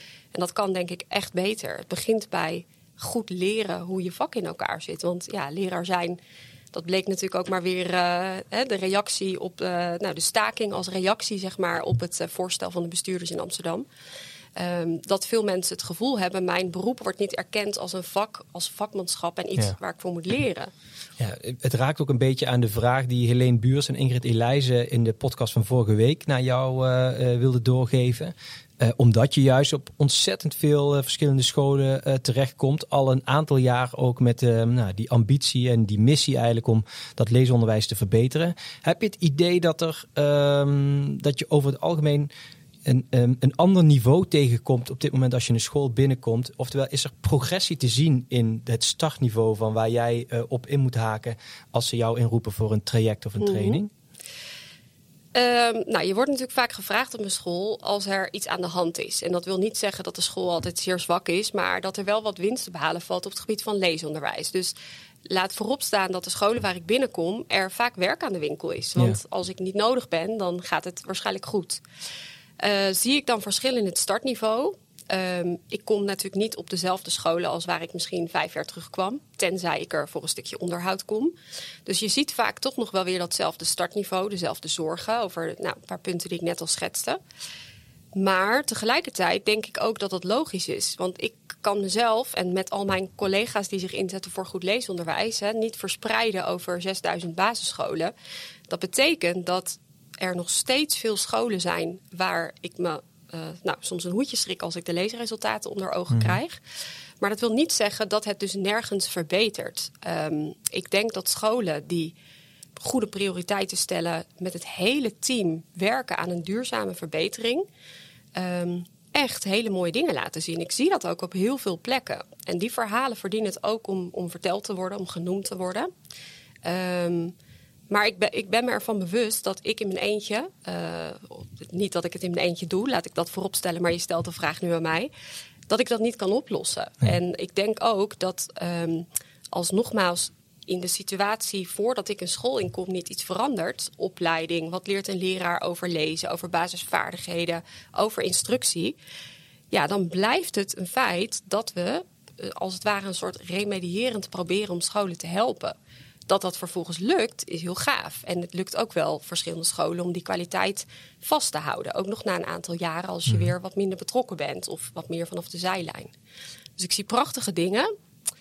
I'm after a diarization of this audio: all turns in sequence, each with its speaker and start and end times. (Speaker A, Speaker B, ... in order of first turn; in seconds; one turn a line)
Speaker A: 0.3-6.2
Speaker A: 6.7-13.9
Speaker A: 14.6-20.7
Speaker B: 21.2-42.3
Speaker B: 42.9-53.9
Speaker A: 53.4-53.8
Speaker A: 55.4-64.8
Speaker A: 65.2-71.8
Speaker A: 72.6-81.3
Speaker A: 81.9-87.2
Speaker A: 88.2-98.1
Speaker A: 98.7-106.6
Speaker B: 106.1-106.4
Speaker A: 107.2-112.1
Speaker A: 112.8-117.7
Speaker A: 118.4-125.9
Speaker A: 126.6-127.3
Speaker A: 127.9-135.1
Speaker A: 135.7-149.0
Speaker A: 149.7-155.8
Speaker A: 156.3-166.1
Speaker B: 163.3-163.5
Speaker A: 166.8-167.9